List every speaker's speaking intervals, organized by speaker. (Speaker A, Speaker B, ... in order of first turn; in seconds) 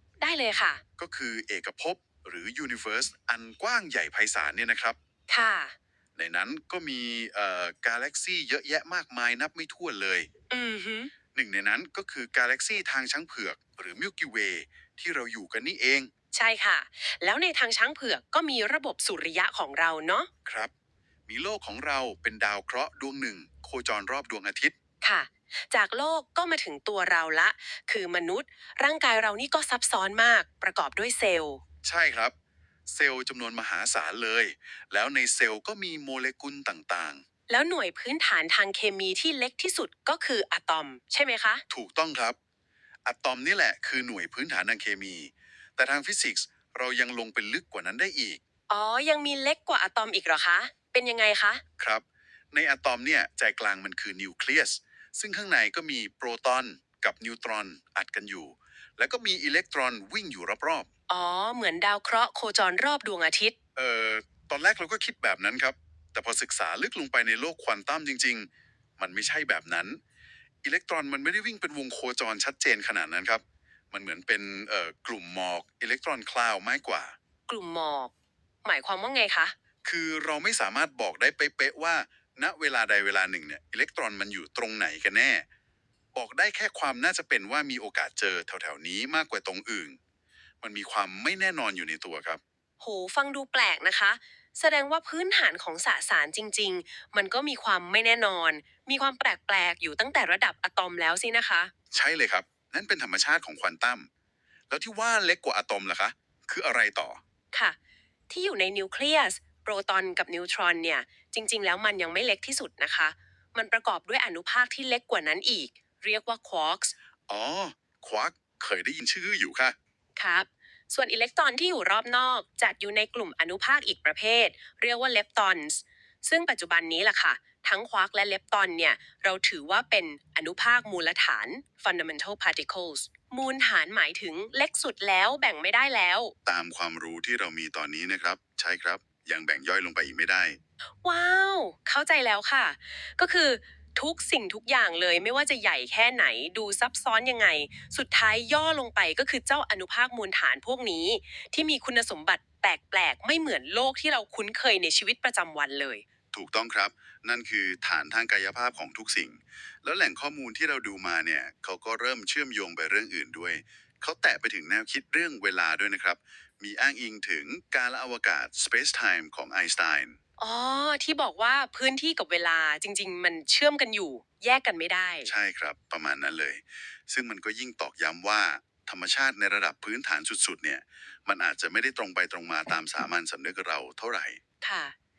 Speaker A: 0.2-0.8, 5.3-5.8, 10.5-11.1, 16.3-20.3, 25.0-31.6, 37.5-41.6, 48.7-51.6, 61.1-63.5, 77.5-78.1, 78.6-79.5, 92.8-101.7, 108.3-116.9, 120.2-136.3, 141.0-156.1, 170.4-175.3, 184.6-184.9
Speaker B: 1.0-5.0, 6.2-10.3, 11.3-16.1, 20.4-20.7, 21.3-24.7, 31.8-32.3, 32.9-37.2, 41.7-42.4, 43.0-48.4, 51.8-60.9, 63.8-70.0, 70.6-77.2, 79.8-85.5, 86.1-90.0, 90.6-92.4, 101.9-104.1, 104.7-107.2, 117.3-119.8, 136.4-140.6, 156.3-170.2, 175.2-184.4